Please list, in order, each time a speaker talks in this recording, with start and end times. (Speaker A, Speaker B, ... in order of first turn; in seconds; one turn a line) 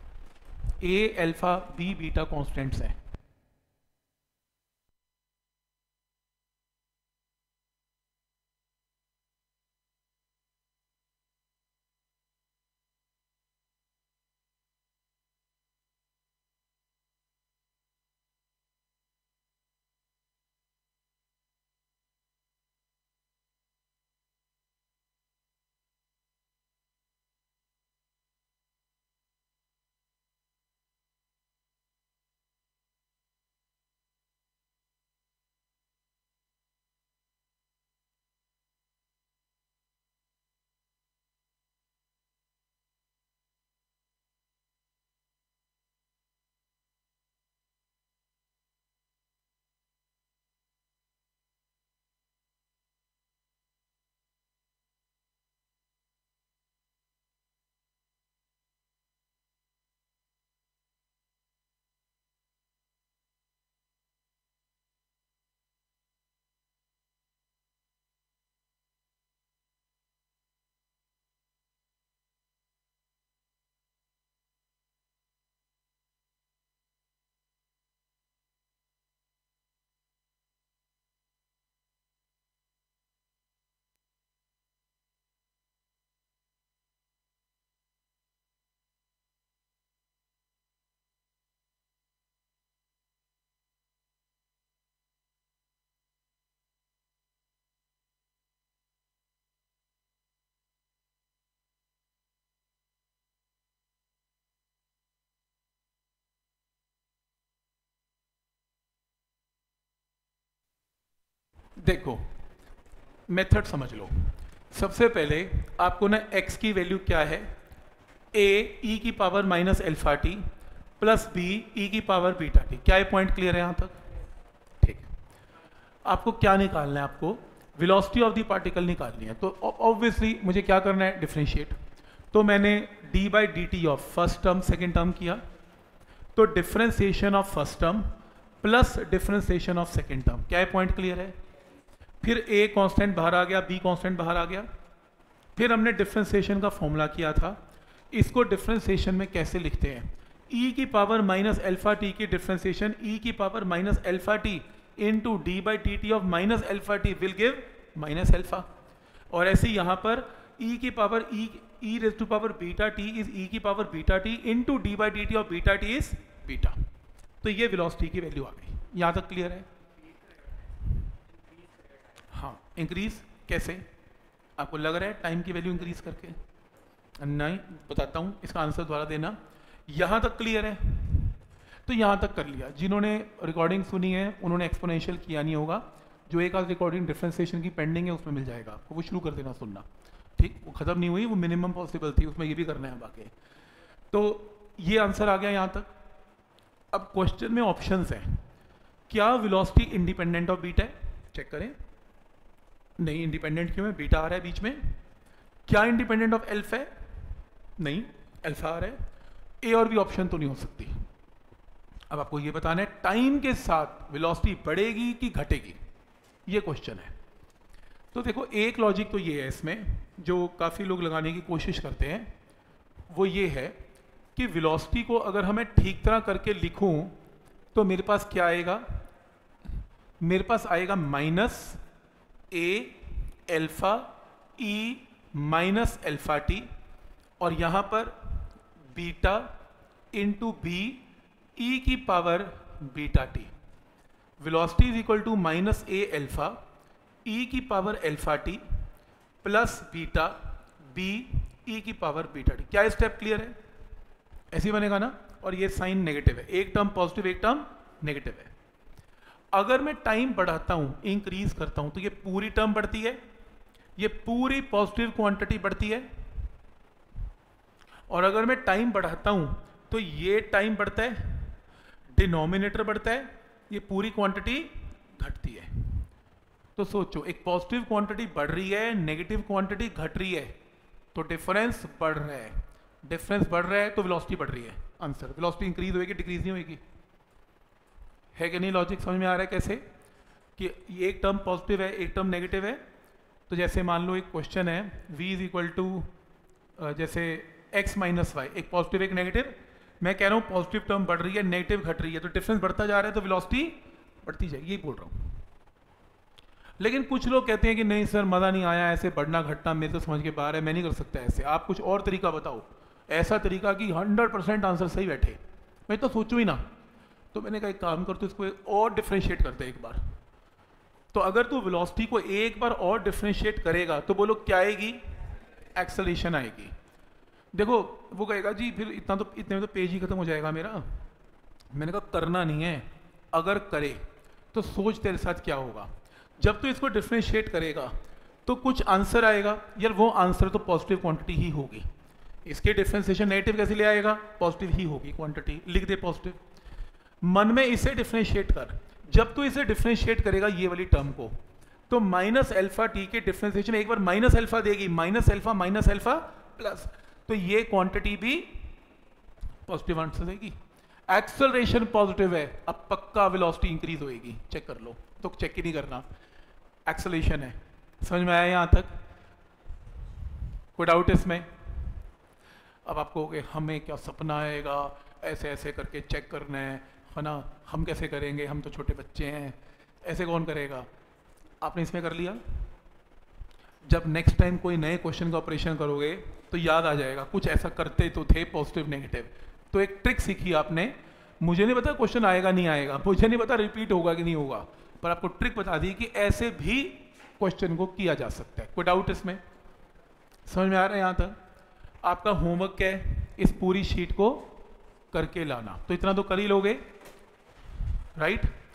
Speaker A: 0.8-3.0
Speaker A: 111.8-112.3
Speaker A: 113.3-117.6
Speaker A: 118.3-120.5
Speaker A: 121.0-124.0
Speaker A: 124.8-125.1
Speaker A: 126.1-131.8
Speaker A: 132.3-135.4
Speaker A: 136.3-141.4
Speaker A: 142.2-144.7
Speaker A: 145.6-147.6
Speaker A: 148.1-158.7
Speaker A: 159.3-166.8
Speaker A: 167.4-169.7
Speaker A: 172.3-173.9
Speaker A: 174.6-176.4
Speaker A: 177.2-189.9
Speaker A: 190.4-193.3
Speaker A: 194.1-195.9
Speaker A: 196.9-198.4
Speaker A: 199.1-201.8
Speaker A: 203.0-205.0
Speaker A: 205.7-209.0
Speaker A: 209.6-211.1
Speaker A: 212.1-215.8
Speaker A: 216.5-217.1
Speaker A: 218.1-222.3
Speaker A: 223.1-223.8
Speaker A: 224.3-227.2
Speaker A: 227.7-229.0
Speaker A: 230.2-231.8
Speaker A: 232.5-236.7
Speaker A: 237.4-239.6
Speaker A: 240.1-241.1
Speaker A: 241.6-243.5
Speaker A: 244.4-246.6
Speaker A: 247.3-248.8
Speaker A: 249.4-253.6
Speaker A: 254.5-258.5
Speaker A: 259.5-263.2
Speaker A: 264.0-266.2
Speaker A: 268.1-271.6
Speaker A: 272.1-276.1
Speaker A: 276.8-280.6
Speaker A: 281.1-286.8
Speaker A: 288.4-289.9
Speaker A: 290.6-292.8
Speaker A: 293.5-296.1
Speaker A: 296.8-305.4
Speaker A: 306.8-316.7
Speaker A: 317.3-320.1
Speaker A: 321.1-325.1
Speaker A: 325.8-326.7
Speaker A: 327.5-331.0
Speaker A: 331.7-341.9
Speaker A: 342.5-346.4
Speaker A: 347.2-351.4
Speaker A: 351.9-358.7
Speaker A: 359.7-366.1
Speaker A: 366.9-369.0
Speaker A: 370.8-371.8
Speaker A: 372.9-380.9
Speaker A: 381.6-382.6
Speaker A: 383.9-399.4
Speaker A: 400.5-401.4
Speaker A: 402.0-404.5
Speaker A: 405.1-406.9
Speaker A: 408.2-408.6